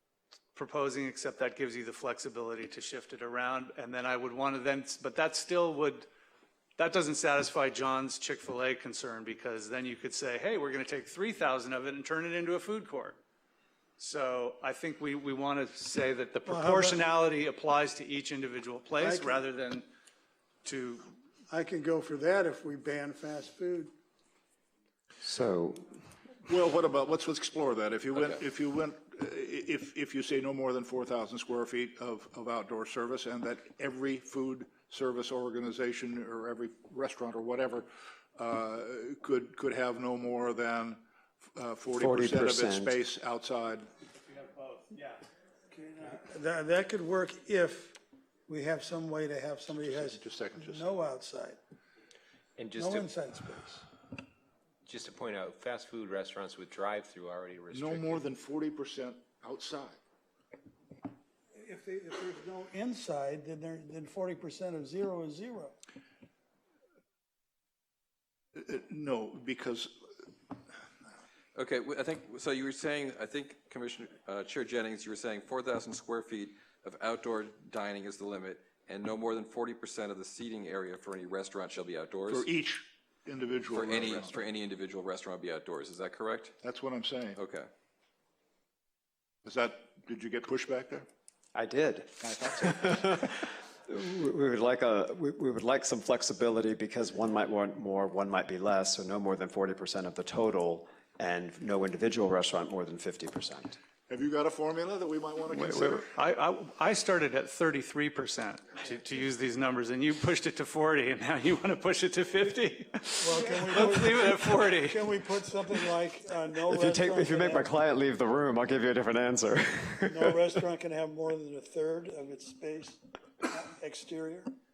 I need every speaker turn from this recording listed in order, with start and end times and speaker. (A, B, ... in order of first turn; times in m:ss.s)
0:00.5-0:06.1 A
0:06.8-0:13.2 A
0:14.0-0:19.8 A
0:16.4-0:17.1 B
0:19.0-0:19.4 B
0:20.6-0:21.1 A
0:21.5-0:23.9 B
0:25.2-0:26.0 C
0:26.4-0:43.9 D
0:41.9-0:43.0 C
0:44.2-0:45.2 A
0:45.7-0:51.6 B
0:49.6-0:50.9 D
0:52.6-0:53.1 E
0:52.7-0:53.8 B
0:54.8-0:58.3 E
0:57.7-1:00.0 D
1:01.5-1:05.8 B
1:08.5-1:10.1 D
1:11.5-1:22.5 F
1:22.3-1:24.5 D
1:23.7-1:26.6 F
1:26.6-1:27.4 D
1:27.3-1:27.7 F
1:29.4-1:31.1 D
1:31.5-1:43.8 C
1:32.2-1:33.0 D
1:44.1-1:46.1 D
1:45.5-1:55.1 A
1:53.2-1:57.7 B
1:56.6-2:00.6 C
2:00.1-2:04.5 B